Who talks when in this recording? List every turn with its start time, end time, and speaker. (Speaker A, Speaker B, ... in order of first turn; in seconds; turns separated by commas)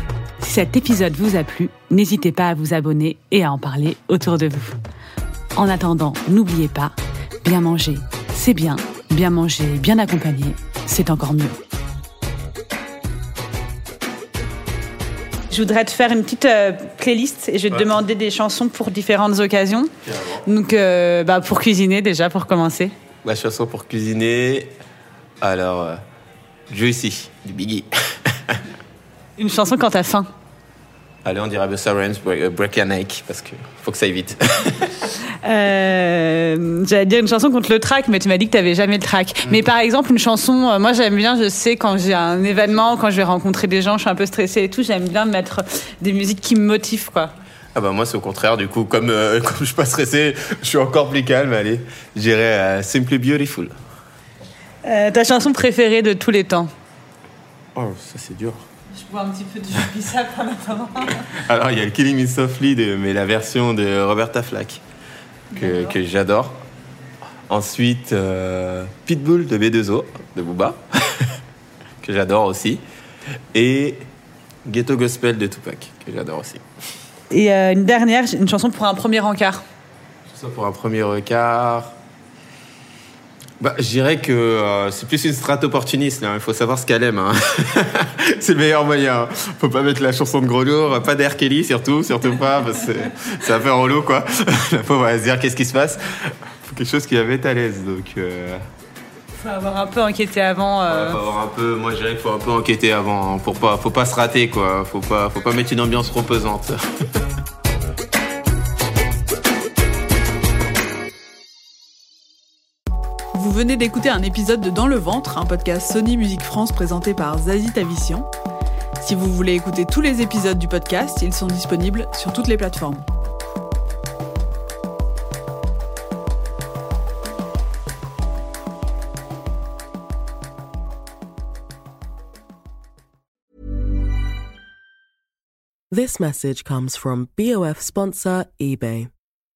Speaker A: 0.4-4.8, Speaker A: 5.6-11.6, Speaker A: 15.5-19.9, Speaker B: 20.0-20.4, Speaker A: 20.4-22.9, Speaker B: 23.2-24.7, Speaker B: 25.4-26.0, Speaker B: 26.7-28.6, Speaker A: 29.4-30.3, Speaker B: 31.2-35.0, Speaker A: 35.5-47.3, Speaker B: 47.8-53.7, Speaker A: 54.8-56.7, Speaker B: 57.8-58.6, Speaker A: 59.0-61.3, Speaker B: 61.4-64.8, Speaker A: 65.5-66.0, Speaker B: 65.6-66.5, Speaker B: 67.5-71.4, Speaker B: 72.0-72.8, Speaker B: 73.5-74.0, Speaker B: 74.7-76.6, Speaker A: 77.3-79.6, Speaker B: 80.3-81.9, Speaker B: 83.6-98.6, Speaker A: 99.4-101.2, Speaker B: 100.9-106.8, Speaker C: 113.3-118.3, Speaker C: 119.0-123.0, Speaker D: 135.9-139.1